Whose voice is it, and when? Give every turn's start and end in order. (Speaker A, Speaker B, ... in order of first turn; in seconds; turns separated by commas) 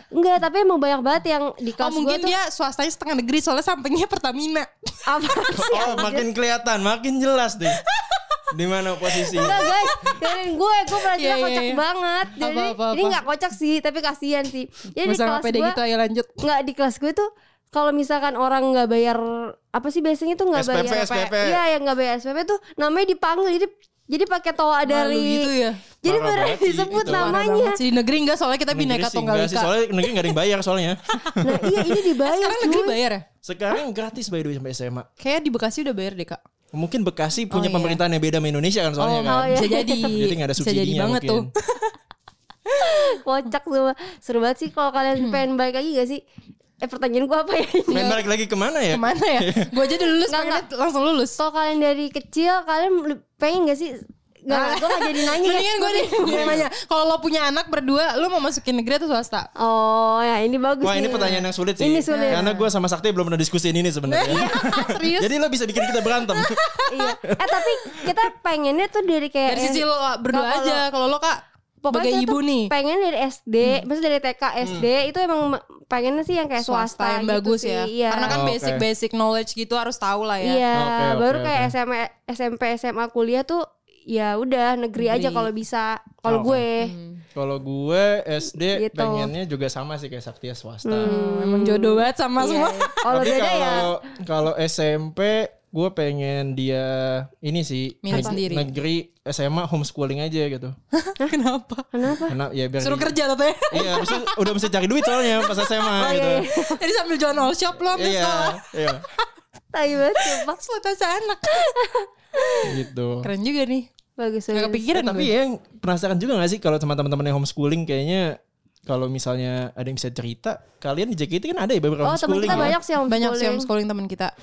Speaker A: 0.1-2.3, Speaker B: 1.8-5.0, Speaker A: 5.1-6.3, Speaker C: 5.5-7.8, Speaker B: 7.7-8.4, Speaker C: 8.5-9.7, Speaker B: 9.1-10.4, Speaker A: 9.3-15.8, Speaker B: 11.0-11.8, Speaker B: 12.4-13.2, Speaker B: 15.0-16.4, Speaker A: 16.4-25.5, Speaker C: 20.5-21.6, Speaker B: 24.9-25.8, Speaker A: 26.0-27.8, Speaker C: 26.1-27.4, Speaker B: 26.9-30.4, Speaker C: 28.7-31.6, Speaker B: 31.2-33.2, Speaker A: 31.4-33.0, Speaker C: 33.4-35.1, Speaker B: 35.2-36.4, Speaker C: 36.7-39.6, Speaker B: 37.5-38.0, Speaker B: 39.0-41.9, Speaker A: 39.3-40.2, Speaker C: 40.1-41.5, Speaker A: 42.8-46.2, Speaker A: 46.8-48.2, Speaker C: 47.9-49.8, Speaker B: 48.9-51.4, Speaker A: 50.3-50.6, Speaker A: 51.4-56.6, Speaker B: 54.5-59.5, Speaker C: 56.2-56.6, Speaker A: 59.6-62.6, Speaker C: 60.8-66.6, Speaker B: 62.1-62.5, Speaker B: 64.1-67.1, Speaker A: 64.3-64.9, Speaker A: 66.9-70.8, Speaker C: 67.2-68.1, Speaker B: 69.5-72.7, Speaker A: 71.8-78.4, Speaker B: 76.6-80.6, Speaker C: 78.3-78.8, Speaker A: 80.4-86.9, Speaker C: 80.7-81.7, Speaker B: 85.0-85.5, Speaker C: 86.2-86.7, Speaker B: 86.8-87.2, Speaker C: 87.3-91.1, Speaker A: 88.7-89.3, Speaker A: 90.8-93.9, Speaker B: 91.0-93.0, Speaker C: 93.1-100.8, Speaker B: 98.0-98.7, Speaker A: 98.1-98.4, Speaker B: 100.9-101.9, Speaker A: 101.9-102.4, Speaker C: 102.3-103.2, Speaker B: 102.8-104.5, Speaker C: 103.7-106.4, Speaker B: 105.1-109.2, Speaker A: 106.0-106.8, Speaker C: 107.9-109.0, Speaker A: 109.7-110.6, Speaker B: 110.2-111.7, Speaker A: 111.5-112.7, Speaker C: 112.7-113.3, Speaker B: 113.2-113.9, Speaker A: 114.2-114.8, Speaker B: 114.5-115.3, Speaker C: 114.9-122.8, Speaker A: 122.0-123.7, Speaker B: 122.5-124.3